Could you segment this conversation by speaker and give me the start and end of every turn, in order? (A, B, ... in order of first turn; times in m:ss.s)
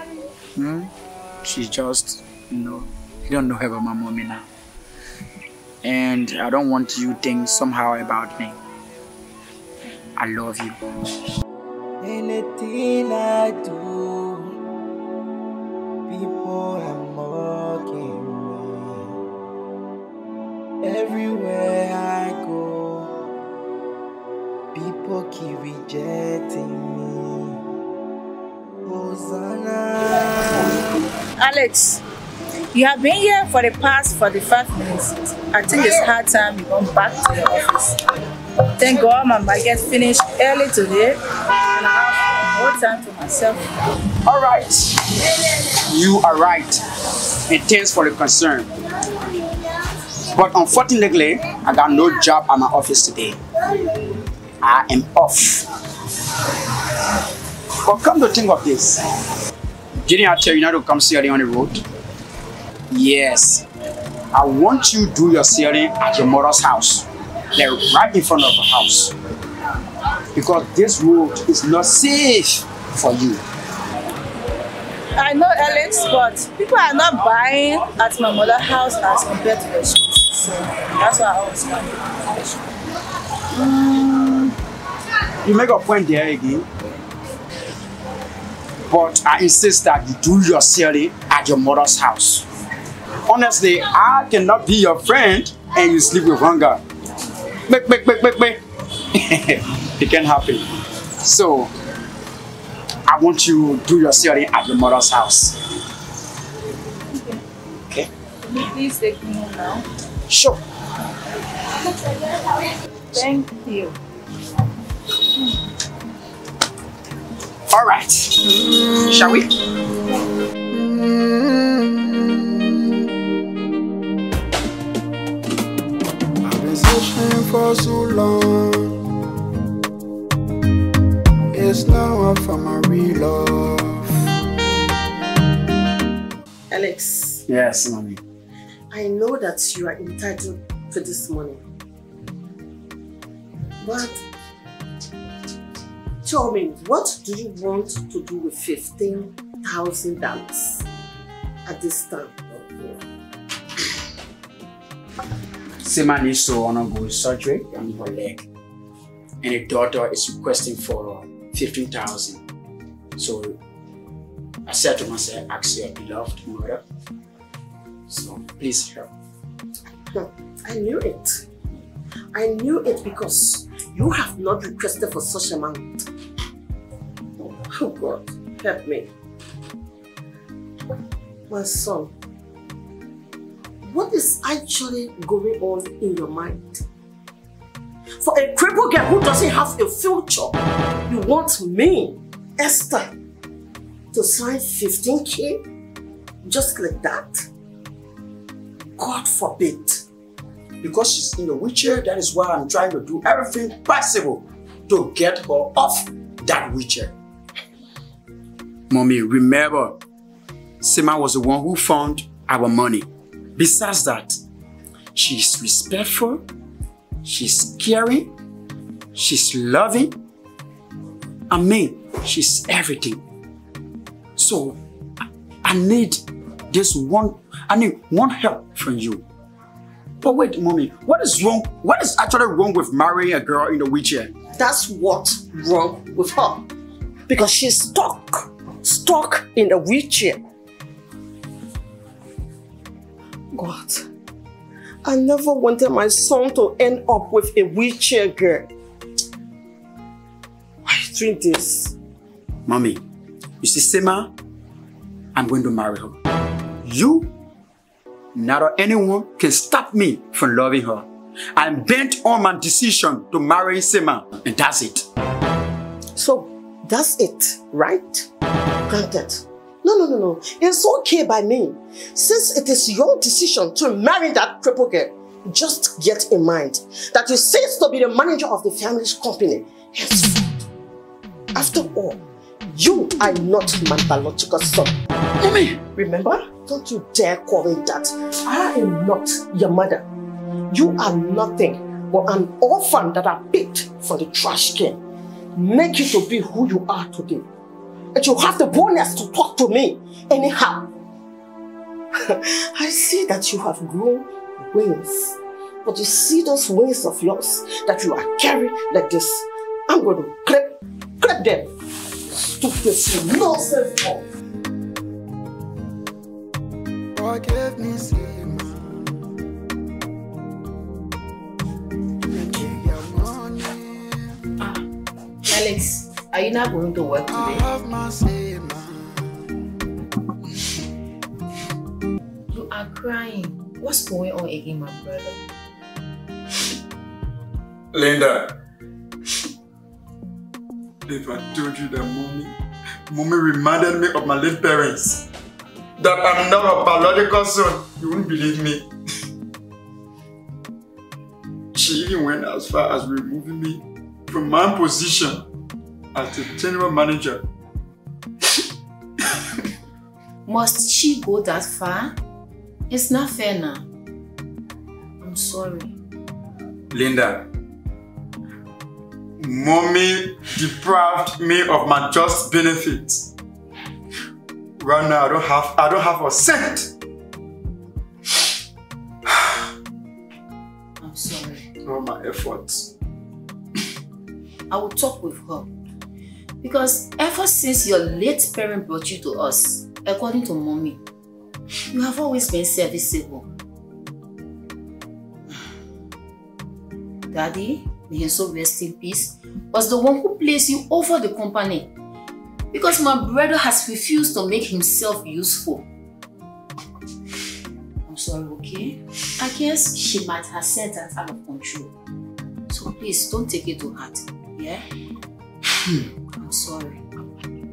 0:00.5-0:00.9 A
0:01.4-0:04.5 A
0:05.8-0:08.6 A
0:10.2-0:10.8 A
0:12.0-0:14.6 B
0:16.1-0:19.2 B
0:20.8-0:23.3 B
0:24.7-0:27.6 B
0:28.8-0:30.8 B
0:31.4-0:32.0 C
0:32.7-0:38.0 C
0:38.8-0:41.2 C
0:41.7-0:43.7 C
0:44.2-0:46.8 A
0:47.5-0:48.7 A
0:50.3-0:53.4 A
0:54.6-0:55.7 A
0:57.8-0:59.0 A
1:00.0-1:01.8 A
1:02.9-1:03.6 A
1:04.3-1:09.1 A
1:10.3-1:13.4 A
1:15.2-1:22.0 C
1:25.4-1:26.7 A
1:28.9-1:32.5 A
1:33.3-1:36.8 A
1:37.7-1:40.7 A
1:41.2-1:41.7 A
1:43.1-1:45.6 A
1:48.4-1:49.9 C
1:50.3-1:50.6 A
1:53.1-1:54.0 C
1:57.7-1:59.5 A
2:00.7-2:02.4 D
2:06.4-2:09.0 D
2:11.5-2:14.1 D
2:16.7-2:17.4 E
2:17.5-2:18.2 A
2:18.9-2:21.6 E
2:23.8-2:24.2 E
2:26.2-2:30.8 E
2:31.6-2:33.0 E
2:35.8-2:38.5 A
2:39.4-2:42.4 A
2:43.2-2:43.6 A
2:44.6-2:46.8 A
2:48.1-2:49.1 A
2:50.1-2:51.5 E
2:52.3-2:56.0 E
2:57.4-2:59.1 E
3:01.5-3:02.1 E
3:03.8-3:06.8 E
3:08.2-3:10.6 E
3:11.1-3:13.1 E
3:14.1-3:15.6 E
3:16.4-3:17.5 E
3:19.0-3:20.0 E
3:20.8-3:27.1 A
3:28.9-3:30.0 A
3:30.8-3:34.4 A
3:35.1-3:36.4 A
3:37.2-3:38.3 A
3:39.1-3:40.2 A
3:41.5-3:43.2 A
3:44.4-3:44.8 A
3:45.6-3:49.2 A
3:50.2-3:54.3 A
3:54.5-3:56.6 E
3:57.3-4:00.4 E
4:03.5-4:04.0 E
4:05.0-4:08.7 E
4:10.8-4:11.9 E
4:12.6-4:13.0 A
4:13.6-4:14.3 A
4:15.3-4:16.2 A
4:16.8-4:17.3 A
4:18.3-4:25.0 A
4:26.2-4:28.3 E
4:28.9-4:40.5 E
4:41.5-4:44.9 E
4:45.4-4:45.8 A
4:45.8-4:50.0 E
4:50.7-4:55.0 E
4:55.5-4:57.4 E
4:58.1-5:00.9 E
5:02.2-5:11.7 E
5:12.3-5:14.2 E
5:17.1-5:19.2 D
5:22.3-5:24.4 D
5:25.5-5:27.7 F
5:27.3-5:29.4 D
5:32.5-5:35.4 F
5:37.9-5:38.5 A
5:41.1-5:42.5 A
5:43.1-5:45.2 A
5:46.0-5:48.9 A
5:51.7-5:55.4 A
5:56.1-5:57.4 A
6:00.4-6:02.1 F
6:02.9-6:03.8 F
6:05.2-6:05.9 F
6:06.9-6:07.4 A
6:09.4-6:13.3 A
6:14.8-6:16.9 A
6:21.0-6:21.7 F
6:21.8-6:22.9 A
6:24.7-6:25.7 F
6:26.6-6:31.0 F
6:31.9-6:33.5 F
6:37.3-6:41.9 F
6:42.7-6:45.8 F
6:48.1-6:51.9 F
6:52.7-6:54.8 F
6:56.4-6:57.2 F